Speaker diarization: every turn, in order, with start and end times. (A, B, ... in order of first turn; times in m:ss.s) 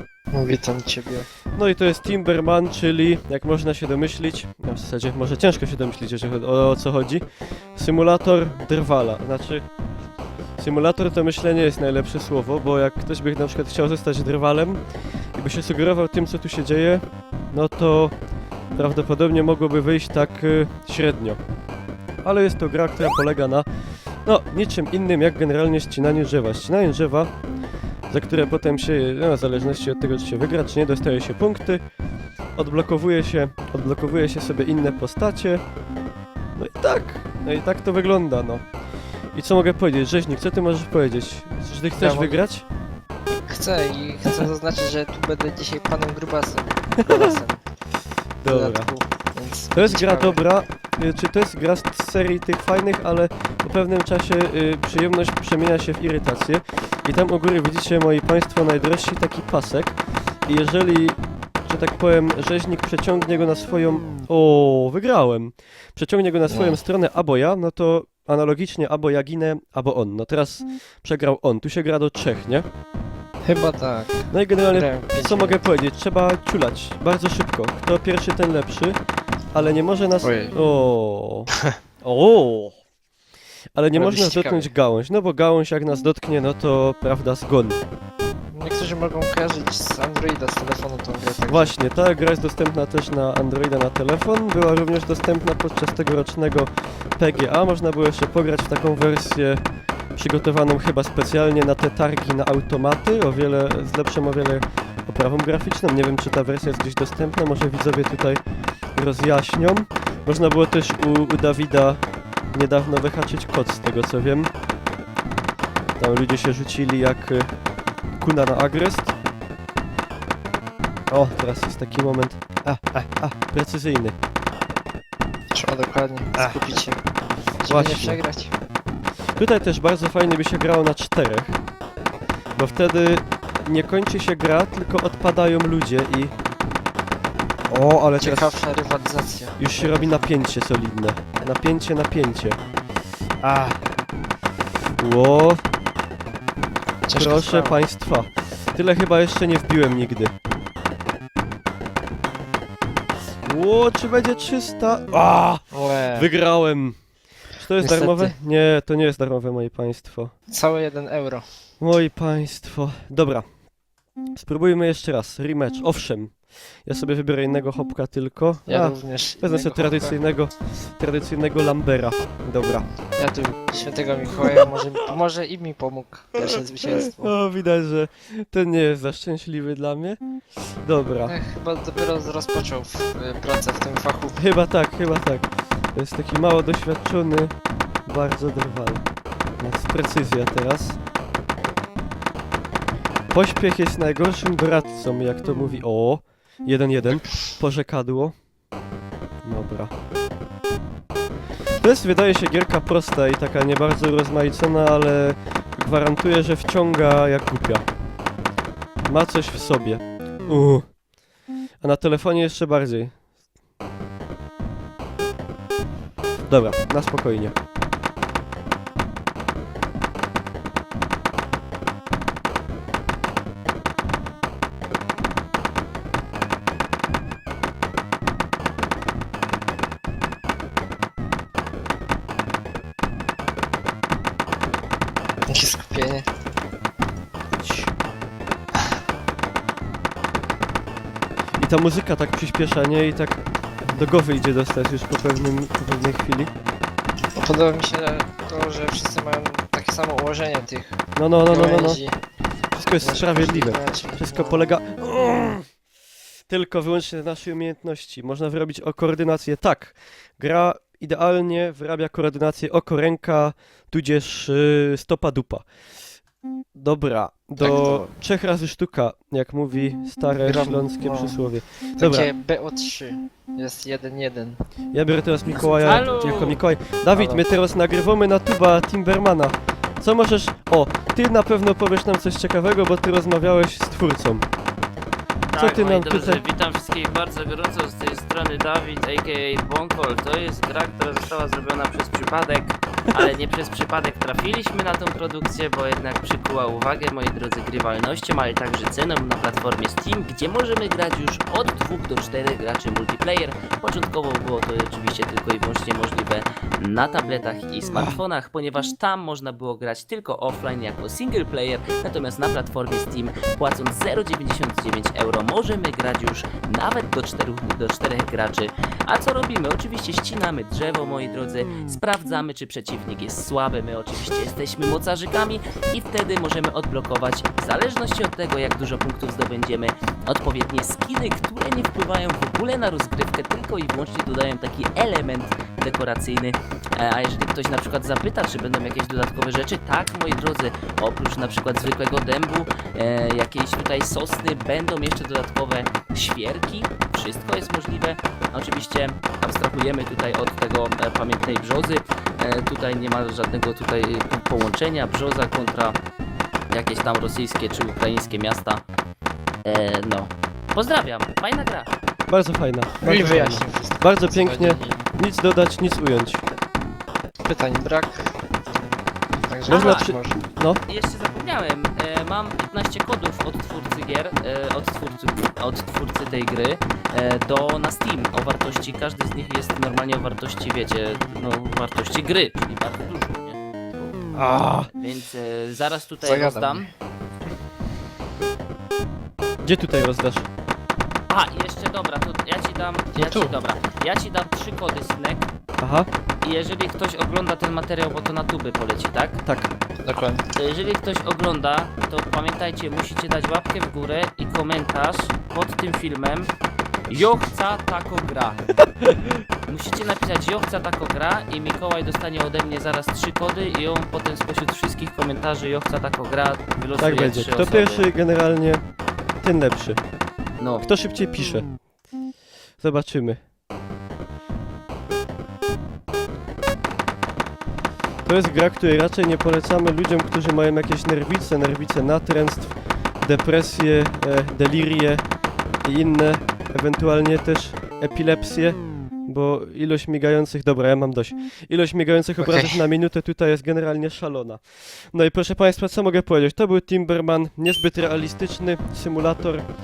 0:00.3-0:01.3 A
0:01.5-0:07.2 B
0:07.8-0:09.6 B
0:10.6-0:14.8 B
0:15.4-0:18.1 B
0:18.7-0:21.4 B
0:22.2-0:23.7 B
0:24.2-0:27.3 B
0:28.1-0:31.8 B
0:32.6-0:35.6 B
0:36.5-0:38.6 B
0:39.3-0:42.6 B
0:41.9-0:42.4 A
0:43.5-0:47.6 A
0:47.0-0:47.4 B
0:48.4-0:48.9 B
0:48.4-0:50.4 A
0:49.7-1:12.6 B
1:06.5-1:06.8 A
1:13.4-1:15.7 A
1:14.3-1:19.0 B
1:19.5-1:22.8 B
1:20.2-1:20.5 A
1:23.7-1:27.8 B
1:23.9-1:24.7 A
1:28.5-1:31.8 A
1:31.4-1:39.6 B
1:40.2-1:48.4 B
1:48.9-1:54.5 B
1:56.0-1:57.5 B
1:58.2-1:59.1 B
2:01.1-2:04.1 B
2:05.5-2:07.0 A
2:06.3-2:06.8 B
2:07.6-2:08.5 A
2:07.6-2:08.2 B
2:09.4-2:11.6 B
2:12.6-2:16.3 B
2:17.7-2:18.6 B
2:18.2-2:20.3 A
2:19.6-2:22.6 B
2:23.4-2:23.8 B
2:25.0-2:25.6 B
2:27.0-2:27.8 A
2:27.1-2:30.3 B
2:33.4-2:37.0 B
2:35.7-2:36.3 A
2:37.6-2:40.3 B
2:37.8-2:38.4 A
2:40.5-2:41.4 A
2:41.8-2:43.4 B
2:44.3-2:52.9 B
2:48.6-2:50.2 A
2:53.2-2:57.3 A
2:56.4-3:00.2 B
3:00.8-3:01.3 B
3:01.2-3:04.4 A
3:04.4-3:07.5 B
3:08.0-3:09.0 B
3:09.6-3:11.0 B
3:13.3-3:18.4 B
3:19.4-3:19.9 B
3:21.8-3:27.8 B
3:29.1-3:31.0 B
3:31.8-3:33.2 B
3:36.4-3:37.5 B
3:55.4-3:56.3 A
4:01.6-4:06.5 B
4:07.3-4:12.2 A
4:11.1-4:12.0 B
4:12.7-4:15.6 B
4:13.0-4:14.7 A
4:16.5-4:25.6 B
4:26.7-4:32.3 B
4:27.6-4:28.1 A
4:30.4-4:31.4 A
4:32.0-4:34.6 A
4:34.9-4:44.5 B
4:35.5-4:36.6 C
4:37.1-4:37.4 A
4:45.5-5:56.0 C
4:45.6-4:46.4 B
5:07.9-5:08.2 B
5:56.7-5:58.8 C
5:59.6-6:01.9 C
6:02.3-6:06.4 B
6:03.0-6:05.0 A
6:07.4-6:08.3 A
6:09.4-6:10.4 A
6:09.7-6:10.8 B
6:09.7-6:10.2 C
6:10.9-6:23.6 C
6:24.3-6:24.9 B
6:24.9-6:26.9 C
6:26.2-6:26.9 A
6:29.6-6:30.5 B
6:31.3-6:35.5 C
6:33.1-6:33.6 A
6:35.8-6:36.1 B
6:36.4-6:39.4 C
6:39.4-6:39.7 B
6:40.0-6:40.4 A
6:40.5-6:46.5 C
6:47.1-6:48.7 C
6:49.7-6:58.1 C
6:57.0-6:58.8 B
6:59.4-7:00.0 B
7:00.6-7:00.8 C
7:00.8-7:01.7 B
7:02.8-7:03.4 B
7:08.2-7:15.2 B
7:15.8-7:29.6 B
7:22.4-7:22.8 A